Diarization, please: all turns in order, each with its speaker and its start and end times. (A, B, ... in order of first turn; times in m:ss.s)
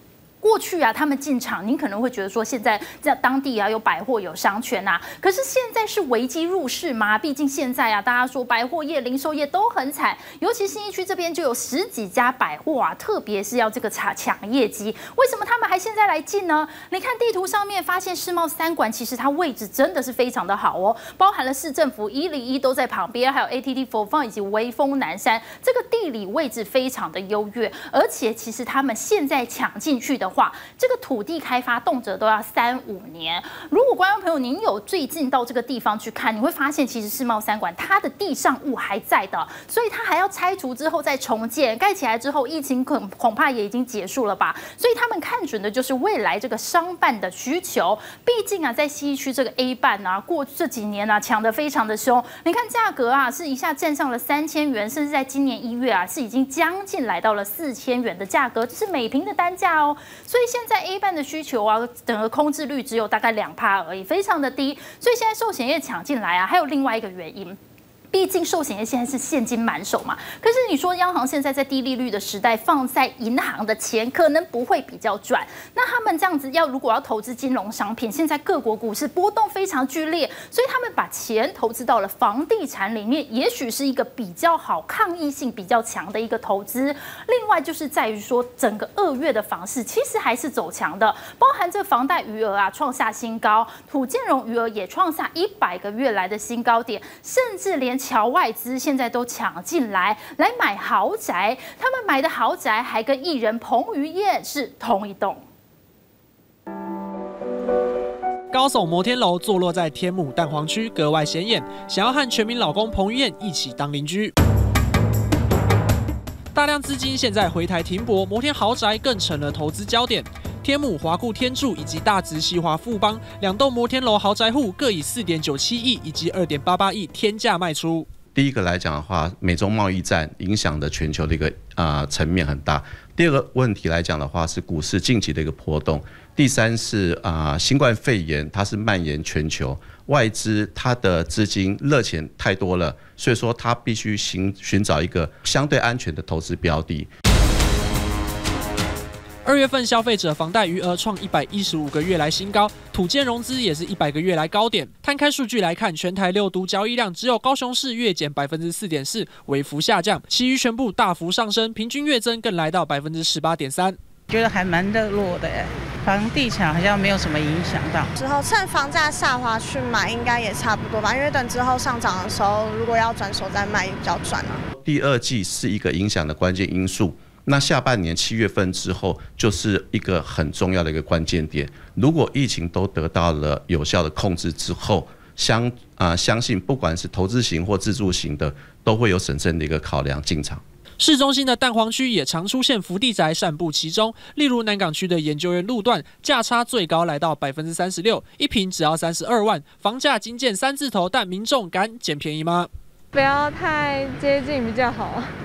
0:00.4-1:07.6 A
1:08.1-1:45.4 A
1:48.5-1:54.3 B
1:56.5-2:08.1 B
2:08.3-2:27.1 C
2:29.4-2:44.0 B
2:44.3-2:48.1 D
2:48.2-2:54.6 E
2:54.8-3:10.6 C
3:11.0-3:22.7 B
3:23.1-3:25.3 F